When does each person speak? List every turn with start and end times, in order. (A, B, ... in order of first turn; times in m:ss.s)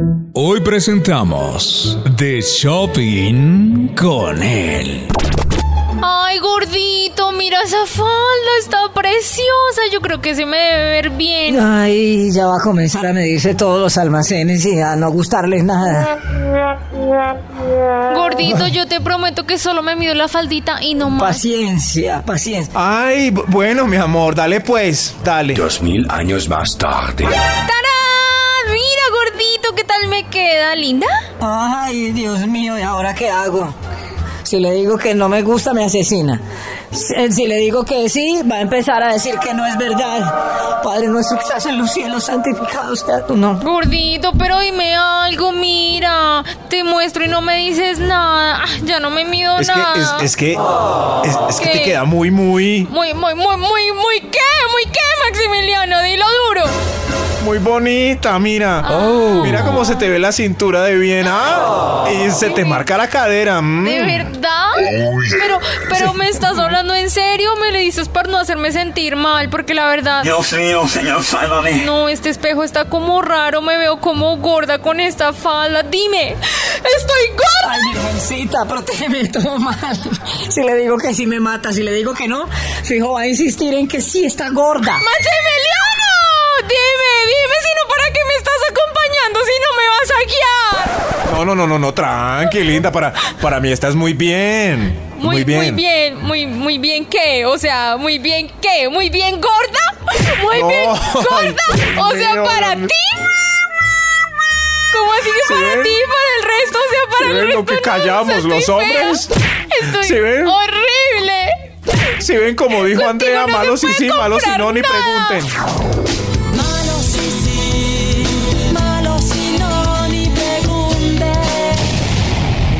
0:00.3-0:05.1 A
0:06.0-0:11.7 B
0:11.5-0:16.2 C
0:18.1-0:21.4 B
0:21.1-0:22.7 C
0:22.7-0:25.6 D
0:25.5-0:27.4 E
0:27.6-0:31.2 B
0:31.4-0:33.8 C
0:34.4-0:43.6 C
0:43.6-0:50.3 B
0:49.6-0:50.7 D
0:51.2-0:52.9 D
0:51.6-0:52.0 B
0:52.9-0:56.8 B
0:57.4-1:04.3 D
0:58.9-0:59.4 B
0:59.0-0:59.7 A
1:03.8-1:10.5 B
1:10.2-1:11.9 E
1:11.6-1:17.9 B
1:17.6-1:25.0 C
1:25.0-1:31.0 B
1:31.3-1:35.8 D
1:35.1-1:43.3 B
1:40.5-1:42.9 D
1:44.9-1:51.6 B
1:45.4-1:46.0 D
1:47.2-1:49.3 D
1:49.9-1:50.6 D
1:52.2-1:55.6 D
1:52.7-1:55.5 B
1:56.5-2:01.8 B